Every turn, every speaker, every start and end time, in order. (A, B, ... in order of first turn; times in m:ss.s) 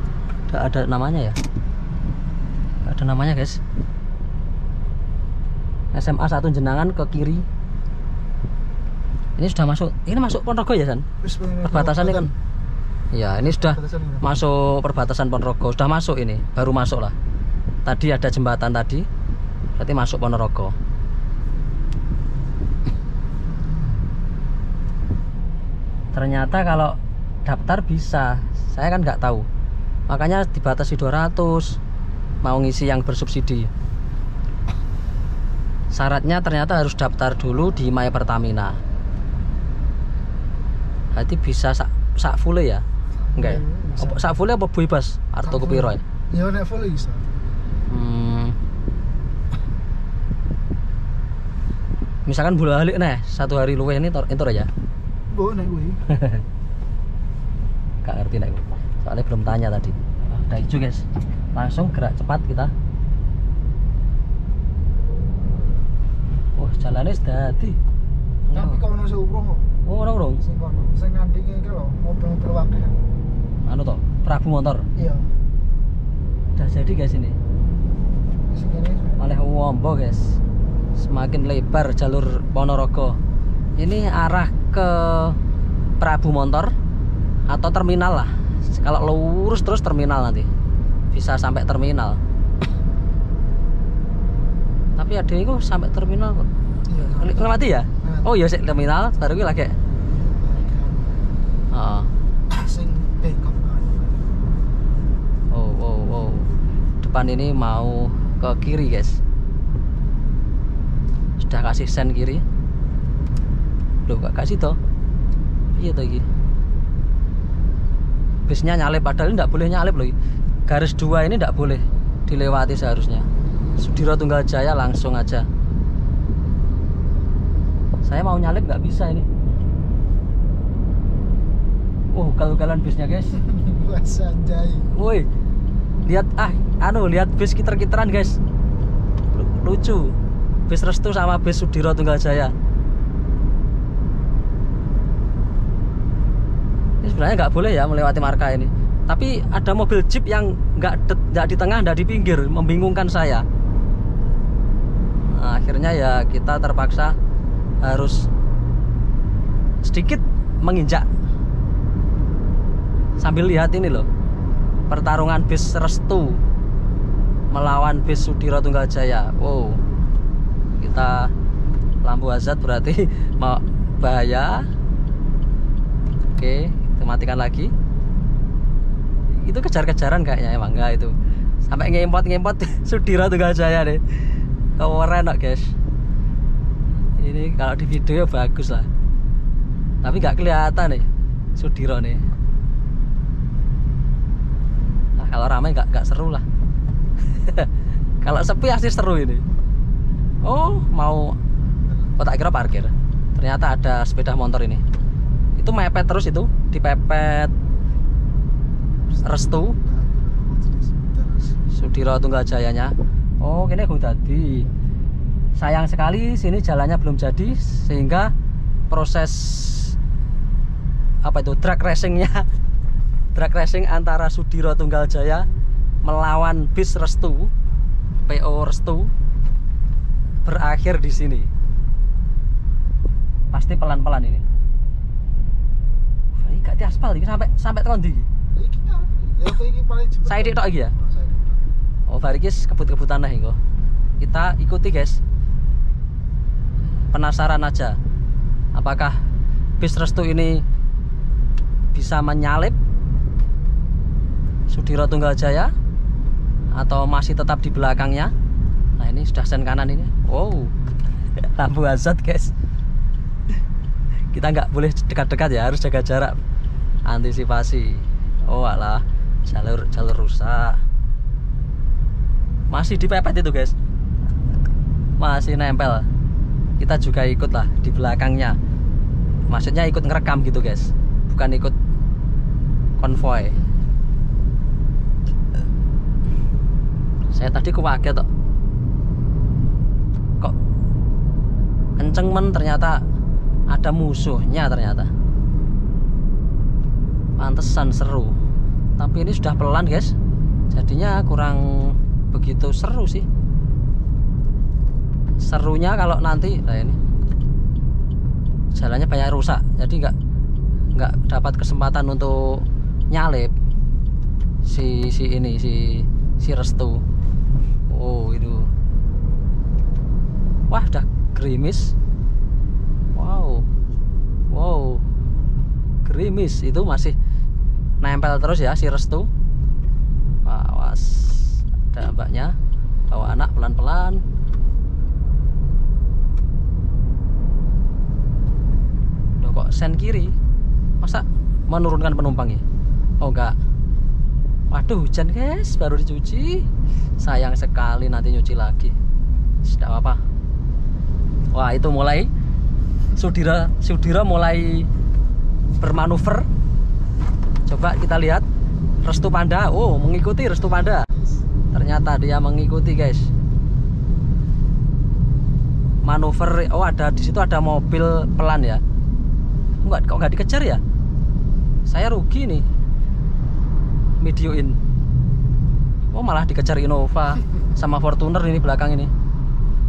0:00.5-0:01.4 A
0:02.8-0:03.6 A
0:05.9-0:07.4 A
0:09.4-0:11.0 A
0:11.2-0:12.3 B
0:11.6-0:12.3 A
0:13.1-0:17.1 A
0:13.4-0:14.3 B
0:17.8-0:19.0 A
0:19.8-0:20.7 A
0:26.1-0:29.4 A
0:30.1-0:31.8 A
0:32.4-0:33.7 A
0:35.9-0:38.8 A
0:41.1-0:42.8 A
0:43.3-0:44.3 B
0:43.4-0:46.0 A
0:45.4-0:47.3 B
0:47.9-0:48.6 A
0:52.2-0:54.7 A
0:55.3-0:56.0 B
0:56.1-0:56.4 A
0:58.0-1:02.7 A
1:06.6-1:07.8 A
1:08.5-1:08.8 A
1:08.5-1:09.6 B
1:09.8-1:10.4 A
1:10.4-1:13.0 B
1:13.6-1:14.8 A
1:14.9-1:15.3 B
1:16.6-1:17.4 A
1:18.5-1:19.2 B
1:19.2-1:20.4 A
1:21.0-1:23.2 A
1:23.8-1:25.4 A
1:26.0-1:26.7 A
1:27.5-1:30.5 A
1:31.1-1:32.2 A
1:35.0-1:36.5 A
1:36.9-1:38.3 B
1:37.0-1:39.7 A
1:40.1-1:41.2 B
1:41.7-1:42.1 A
1:42.5-1:44.3 B
1:45.5-1:46.5 A
1:47.0-1:49.2 A
1:51.4-1:52.4 A
1:54.1-1:54.8 A
1:55.7-1:56.2 A
1:58.5-2:00.1 A
2:00.7-2:03.3 A
2:03.8-2:05.4 A
2:08.0-2:09.3 A
2:12.1-2:13.4 A
2:13.3-2:14.9 B
2:14.9-2:15.3 A
2:16.0-2:18.4 A
2:19.3-2:20.1 A
2:20.7-2:22.5 A
2:27.0-2:33.4 A
2:35.3-2:37.1 A
2:37.8-2:38.2 A
2:39.8-2:41.0 A
2:43.2-2:44.1 A
2:44.9-2:46.4 A
2:47.5-2:49.8 A
2:50.8-2:51.3 A
2:52.0-2:54.6 A
2:56.4-2:57.7 A
2:59.4-3:01.1 A
3:01.6-3:04.2 A
3:04.8-3:05.7 A
3:07.2-3:08.9 A
3:10.0-3:12.2 A
3:15.2-3:16.4 A
3:17.3-3:17.7 A
3:18.2-3:19.4 A
3:20.4-3:21.4 A
3:21.7-3:22.1 B
3:22.2-3:24.8 A
3:25.6-3:27.5 A
3:29.1-3:31.6 B
3:29.2-3:29.8 A
3:31.7-3:34.7 A
3:35.6-3:38.3 A
3:38.9-3:39.9 A
3:41.2-3:42.4 A
3:43.3-3:45.4 A
3:46.0-3:47.5 A
3:48.2-3:49.1 A
3:50.4-3:51.5 A
3:53.5-3:54.4 A
3:56.4-3:58.3 A
3:58.5-4:01.6 B
4:00.2-4:00.9 A
4:02.1-4:03.6 A
4:04.2-4:05.2 A
4:07.1-4:08.0 A
4:08.8-4:09.2 A
4:09.8-4:10.6 A
4:11.9-4:12.8 A
4:14.7-4:15.7 A
4:16.7-4:18.3 A
4:19.0-4:20.7 A
4:21.4-4:22.5 A
4:24.3-4:26.4 A
4:27.1-4:30.8 A
4:32.7-4:33.7 A
4:35.2-4:36.1 A
4:36.8-4:38.6 A
4:39.5-4:41.7 A
4:43.0-4:43.6 A
4:47.3-4:48.3 A
4:52.0-4:53.0 A
4:53.7-4:55.1 A
4:57.4-4:58.4 A
4:59.0-5:00.1 A
5:00.7-5:03.2 A
5:05.4-5:07.0 A
5:08.7-5:10.1 A
5:10.9-5:13.5 A
5:14.6-5:17.0 A
5:17.9-5:18.7 A
5:20.7-5:21.9 A
5:23.2-5:23.6 A
5:24.5-5:25.0 A
5:26.0-5:27.1 A
5:28.0-5:29.3 A
5:30.4-5:32.5 A
5:33.1-5:34.2 A
5:39.4-5:40.3 A
5:41.0-5:42.6 A
5:43.2-5:43.6 A
5:44.7-5:46.6 A
5:47.2-5:48.9 A
5:49.6-5:50.2 A
5:51.5-5:52.3 A
5:53.1-5:54.9 A
5:55.8-5:56.5 A
5:57.7-5:58.4 A
5:59.0-6:01.1 A
6:00.6-6:01.4 B
6:01.7-6:03.3 A
6:06.0-6:08.8 A
6:09.8-6:10.8 A
6:11.8-6:12.6 A
6:14.2-6:14.8 A
6:16.1-6:19.1 A